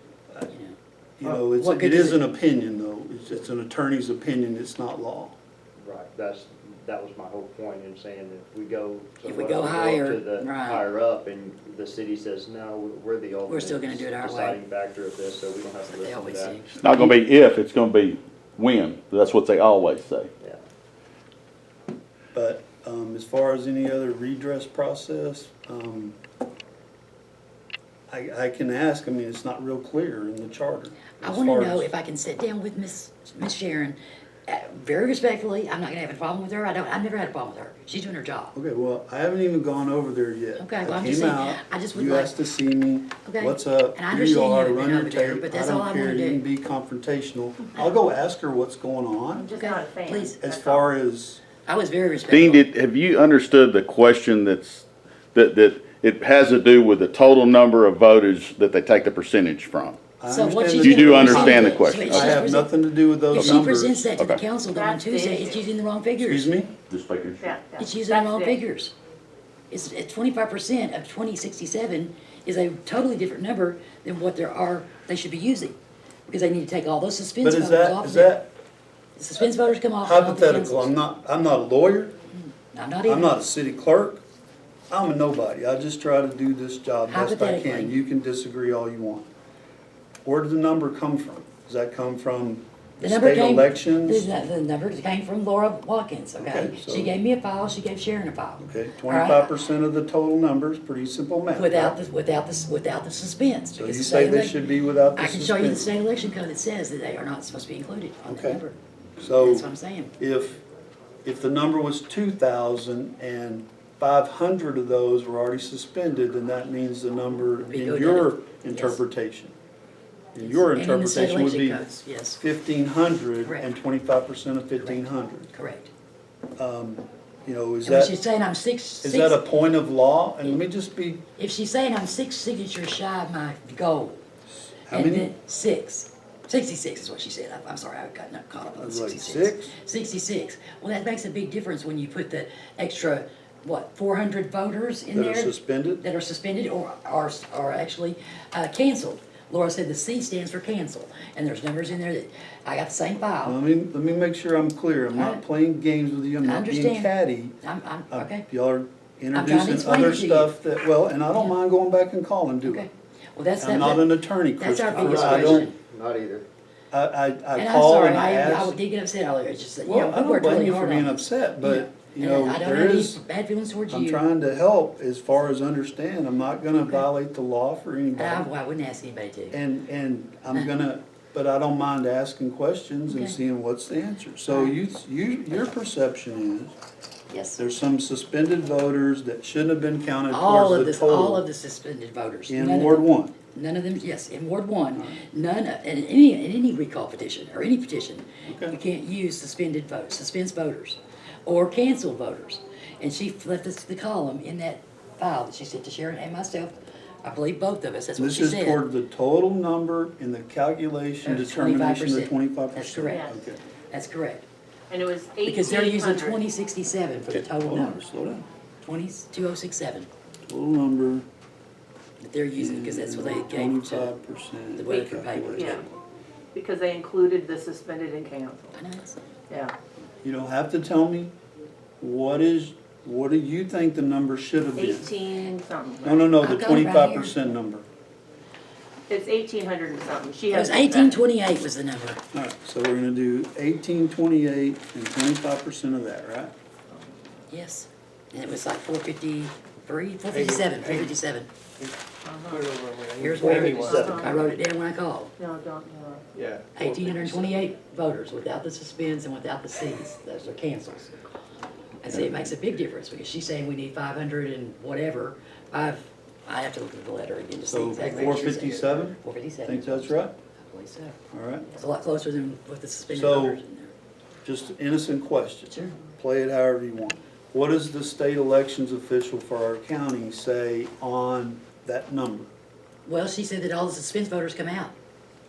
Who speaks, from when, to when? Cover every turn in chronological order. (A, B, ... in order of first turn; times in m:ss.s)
0:00.5-0:00.7 A
0:01.2-0:05.3 B
0:01.3-0:02.2 A
0:05.8-0:16.6 C
0:09.2-0:10.8 A
0:13.5-0:14.6 A
0:15.9-0:17.1 A
0:16.8-0:20.3 D
0:22.3-0:26.2 B
0:28.1-0:31.9 B
0:31.2-0:38.5 A
0:38.5-0:49.5 B
0:40.6-0:42.3 A
0:43.2-0:46.4 A
0:49.3-0:50.9 E
0:49.5-0:50.3 A
0:50.3-0:51.4 B
0:51.6-0:52.6 A
0:52.3-1:00.0 D
1:00.2-1:04.1 B
1:00.3-1:06.5 A
1:00.8-1:02.4 D
1:03.3-1:03.6 D
1:04.6-1:05.7 E
1:06.2-1:06.7 B
1:06.9-1:07.6 D
1:07.4-1:08.6 E
1:07.8-1:08.9 A
1:09.7-1:15.8 A
1:16.3-1:18.4 A
1:17.4-1:18.5 B
1:19.2-1:20.9 A
1:20.0-1:22.1 B
1:22.4-1:23.4 A
1:23.1-1:24.2 B
1:24.9-1:29.3 B
1:27.1-1:28.0 A
1:30.2-1:34.3 B
1:33.0-1:39.5 A
1:36.4-1:37.1 B
1:38.6-1:42.0 B
1:41.5-1:44.6 A
1:43.8-1:45.9 B
1:45.2-1:48.8 A
1:48.2-1:48.6 B
1:49.2-1:50.6 B
1:49.3-1:50.1 A
1:51.2-1:59.5 B
1:57.6-1:59.0 A
2:00.3-2:01.8 B
2:00.4-2:02.4 A
2:02.4-2:05.5 B
2:03.4-2:03.7 A
2:04.8-2:05.9 A
2:06.6-2:08.1 B
2:07.8-2:09.6 A
2:09.0-2:11.2 B
2:11.4-2:14.2 A
2:14.7-2:15.3 B
2:14.9-2:33.6 A
2:18.6-2:19.7 B
2:25.1-2:26.0 B
2:33.4-2:37.6 B
2:35.1-2:35.4 A
2:36.4-2:37.1 A
2:37.6-2:38.5 A
2:38.1-2:42.8 B
2:39.3-2:40.6 A
2:42.6-2:45.7 A
2:43.6-2:45.7 B
2:45.0-2:46.4 C
2:46.9-2:48.8 B
2:47.6-2:54.2 A
2:49.8-2:53.2 B
2:53.9-2:58.5 B
2:58.1-2:59.6 A
2:59.5-3:06.7 B
3:03.1-3:03.4 A
3:04.5-3:04.8 A
3:07.3-3:07.6 A
3:07.6-3:11.4 B
3:10.3-3:28.8 A
3:12.5-3:13.4 B
3:18.4-3:18.8 B
3:28.2-3:33.6 B
3:31.2-3:33.4 A
3:33.0-3:33.4 E
3:33.9-3:34.4 A
3:34.9-3:36.4 E
3:35.4-3:38.0 A
3:37.3-3:38.4 B
3:38.8-3:40.1 A
3:40.5-3:41.2 B
3:42.2-3:44.1 A
3:42.6-3:46.0 B
3:44.8-3:45.8 A
3:45.5-3:45.8 E
3:46.5-3:48.8 E
3:48.7-3:49.2 A
3:50.2-3:51.3 B
3:52.0-3:55.1 B
3:54.8-3:56.3 E
3:56.0-3:57.8 B
3:56.4-3:57.4 A
3:59.1-4:01.2 E
4:00.5-4:02.2 A
4:02.3-4:06.5 B
4:07.5-4:11.5 A
4:10.3-4:11.1 F
4:12.2-4:12.7 E
4:12.4-4:14.5 F
4:13.2-4:15.3 A
4:13.6-4:14.3 C
4:13.7-4:14.4 E
4:15.4-4:16.3 E
4:16.3-4:17.6 F
4:16.7-4:21.1 A
4:22.0-4:31.2 A
4:22.1-4:22.4 B
4:27.7-4:30.3 B
4:28.0-4:28.6 F
4:31.3-4:31.7 B
4:31.7-4:33.9 A
4:33.1-4:33.6 B
4:34.4-4:42.5 B
4:35.7-4:36.0 A
4:43.0-4:44.9 A